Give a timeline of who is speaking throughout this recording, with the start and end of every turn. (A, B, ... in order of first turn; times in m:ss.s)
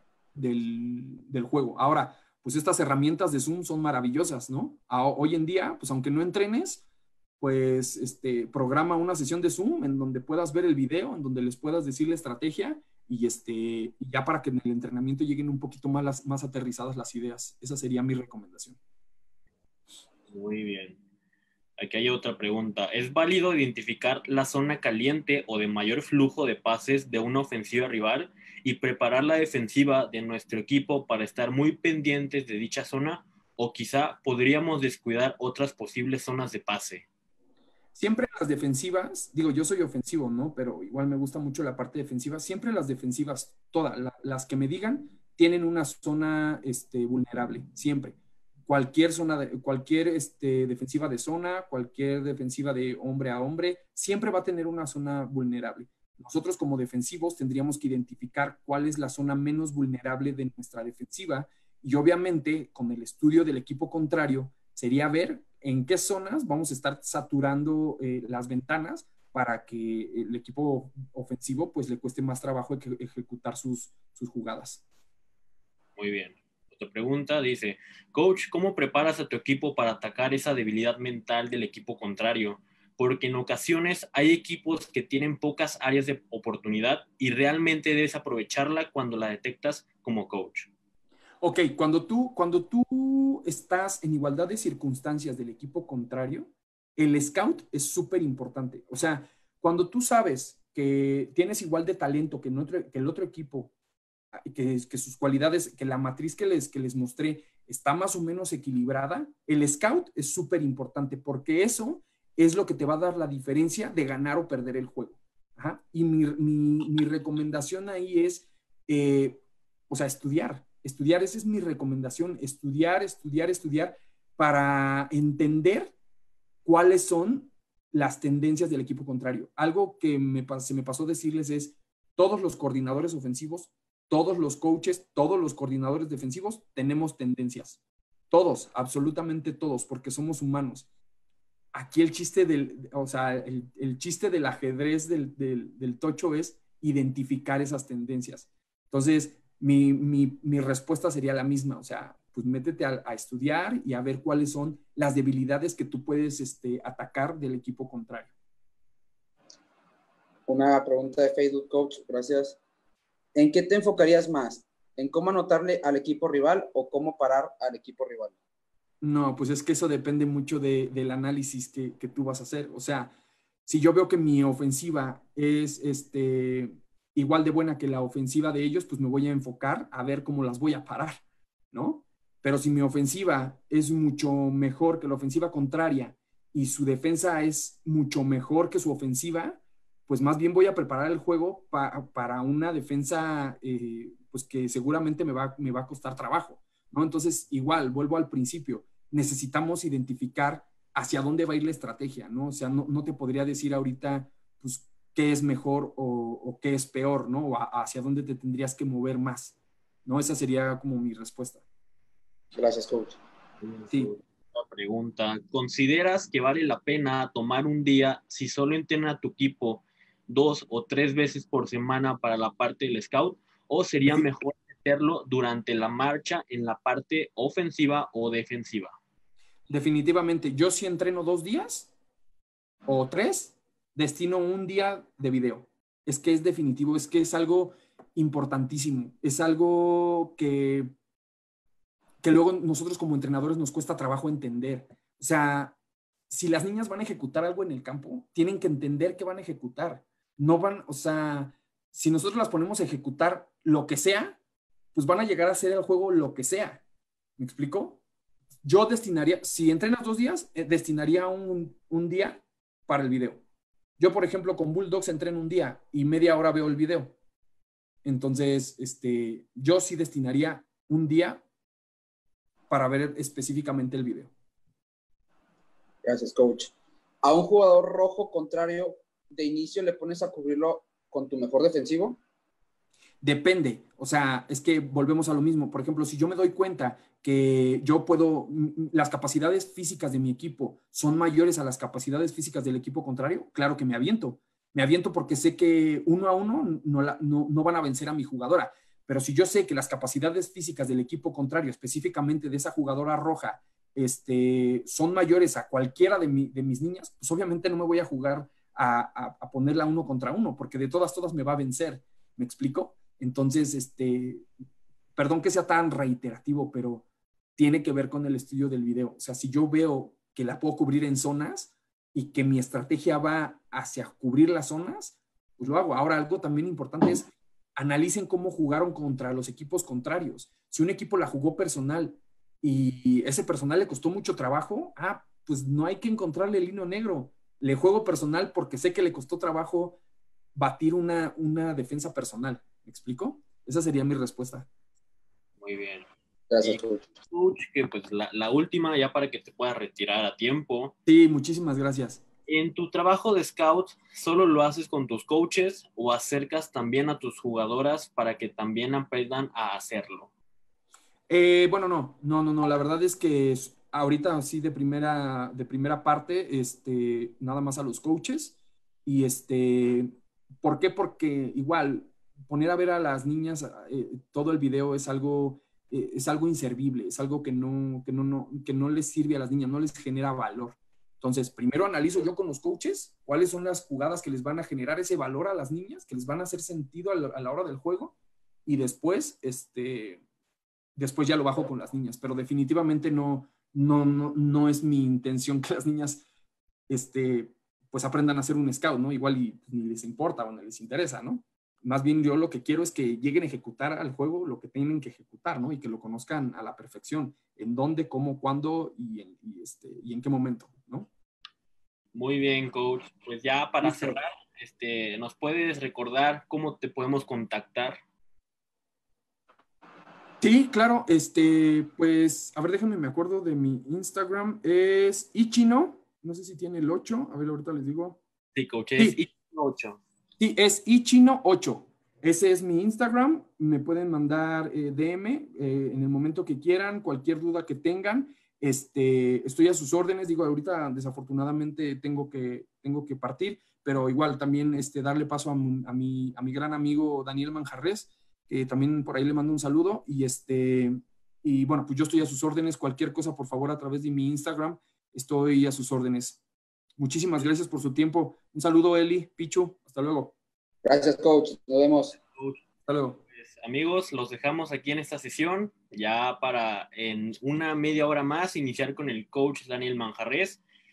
0:00.3-0:06.8 A
0:07.4-0:18.8 A
0:20.3-0:21.0 B
0:21.8-0:37.0 B
0:37.9-1:14.8 A
1:16.0-1:30.7 B
1:31.4-1:43.7 A
1:44.3-2:05.9 A
2:06.6-2:17.8 A
2:18.3-2:20.9 A
2:21.7-2:38.3 A
2:40.5-2:42.6 C
2:43.3-2:48.3 C
2:49.0-2:53.1 A
2:53.6-3:31.6 A
3:32.5-3:33.2 C
3:33.6-3:48.9 B
3:49.7-3:51.9 A
3:52.9-4:00.9 A
4:02.2-4:05.8 A
4:06.3-4:14.4 A
4:14.9-4:16.8 A
4:17.4-4:18.0 A
4:18.6-4:23.4 A
4:24.0-4:27.1 A
4:28.0-4:31.4 A
4:32.7-4:34.3 A
4:36.0-4:42.2 C
4:43.2-5:14.5 A
5:15.2-5:40.0 A
5:40.6-5:44.7 A
5:45.6-5:46.0 B
5:46.5-5:47.1 C
5:46.6-5:50.9 B
5:51.0-5:52.2 A
5:52.5-6:00.3 B
6:01.3-6:30.2 A
6:31.0-6:36.2 A
6:36.9-6:51.1 A
6:52.1-6:58.0 B
6:53.8-6:54.2 A
7:00.4-7:08.2 A
7:08.5-7:10.0 B
7:10.4-7:36.4 A
7:37.0-7:40.3 A
7:40.8-7:42.2 C
7:42.2-7:42.6 B
7:42.8-7:43.2 A
7:43.3-7:50.6 B